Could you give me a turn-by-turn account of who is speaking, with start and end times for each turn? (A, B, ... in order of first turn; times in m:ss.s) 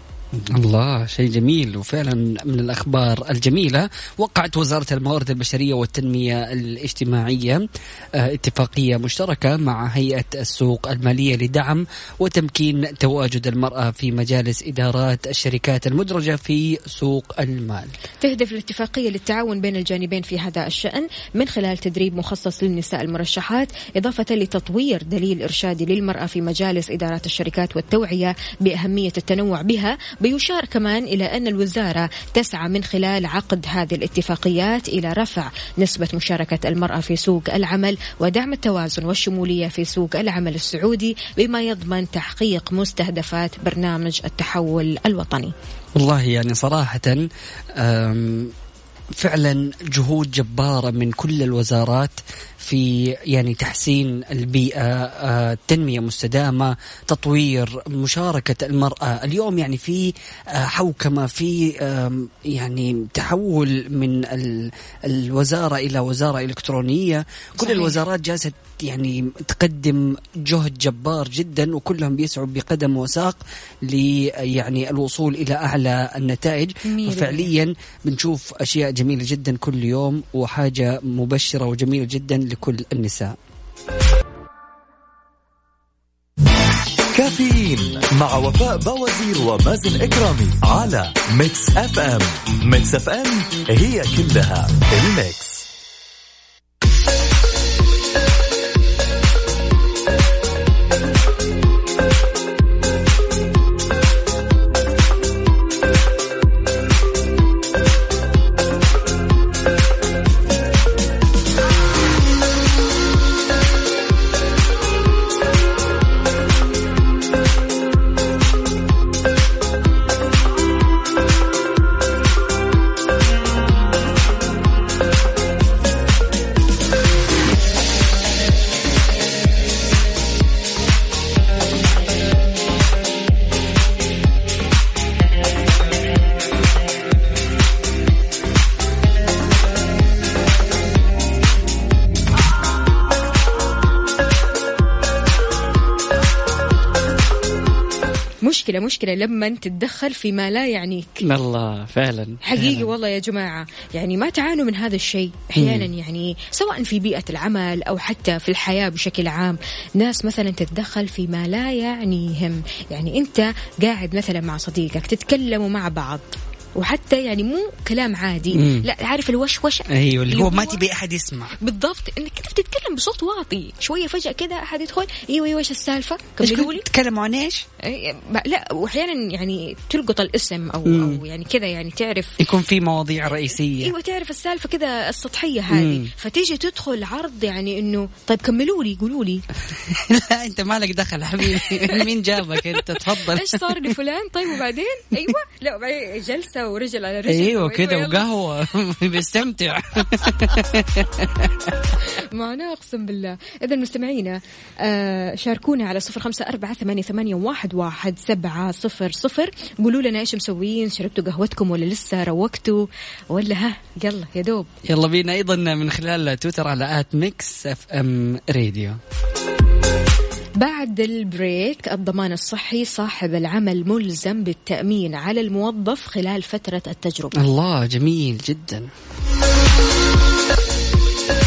0:00.3-0:17.9 A
0:18.2-0:45.5 B
0:46.0-0:48.5 A
0:49.2-1:23.4 A
1:07.6-1:08.0 B
1:16.8-1:17.5 B
1:27.1-1:35.6 C
2:28.4-2:31.2 B
2:31.2-2:32.9 A
2:32.4-2:50.8 B
2:35.6-2:35.9 A
2:48.5-2:48.9 A
2:49.9-2:51.6 A
2:51.6-2:56.8 B
2:56.4-2:57.6 A
2:57.8-3:02.4 B
3:00.8-3:01.2 A
3:02.4-3:03.9 A
3:03.8-3:09.4 B
3:05.7-3:06.1 A
3:09.8-3:13.9 A
3:11.5-3:12.1 B
3:12.8-3:18.2 B
3:17.3-3:21.8 A
3:22.1-3:34.7 B
3:34.8-3:39.0 A
3:40.6-3:47.4 B
3:47.4-3:48.9 A